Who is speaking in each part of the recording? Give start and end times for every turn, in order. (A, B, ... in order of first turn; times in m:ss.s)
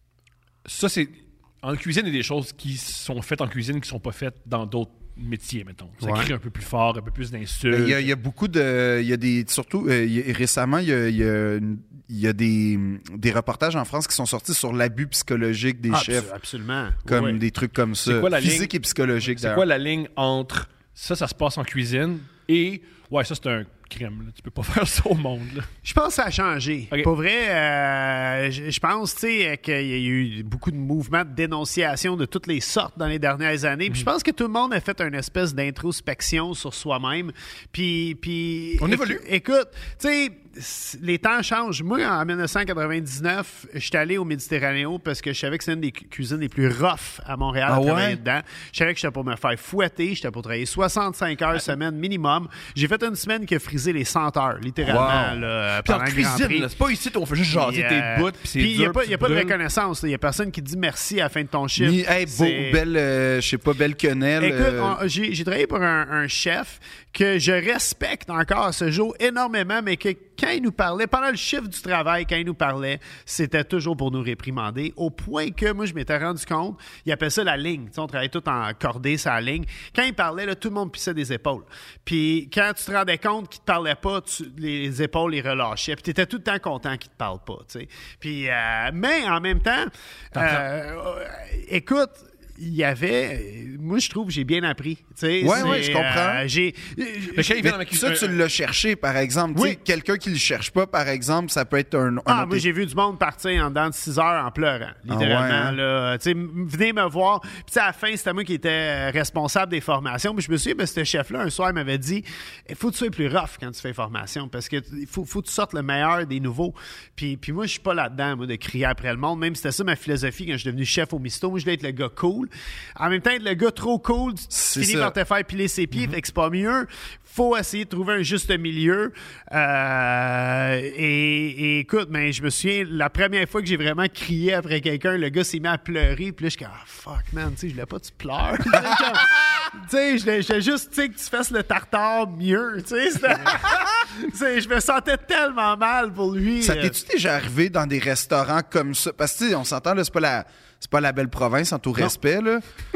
0:00.6-0:08.1 A
0:06.0-0:06.3 B
0:07.7-0:16.3 C
0:15.9-0:17.4 B
0:17.1-0:19.6 C
0:18.0-0:18.7 A
0:19.3-0:25.7 A
0:25.8-0:56.7 B
0:38.8-0:39.2 A
0:47.7-0:48.2 C
0:54.8-0:55.4 C
0:55.8-0:59.6 A
0:57.5-1:02.8 B
1:01.8-1:05.0 C
1:04.4-1:37.6 B
1:30.3-1:30.7 A
1:35.4-1:36.4 C
1:37.4-1:38.4 A
1:37.6-1:42.6 C
1:42.3-2:27.0 B
1:45.1-1:45.8 C
2:04.5-2:05.2 C
2:26.6-2:32.6 C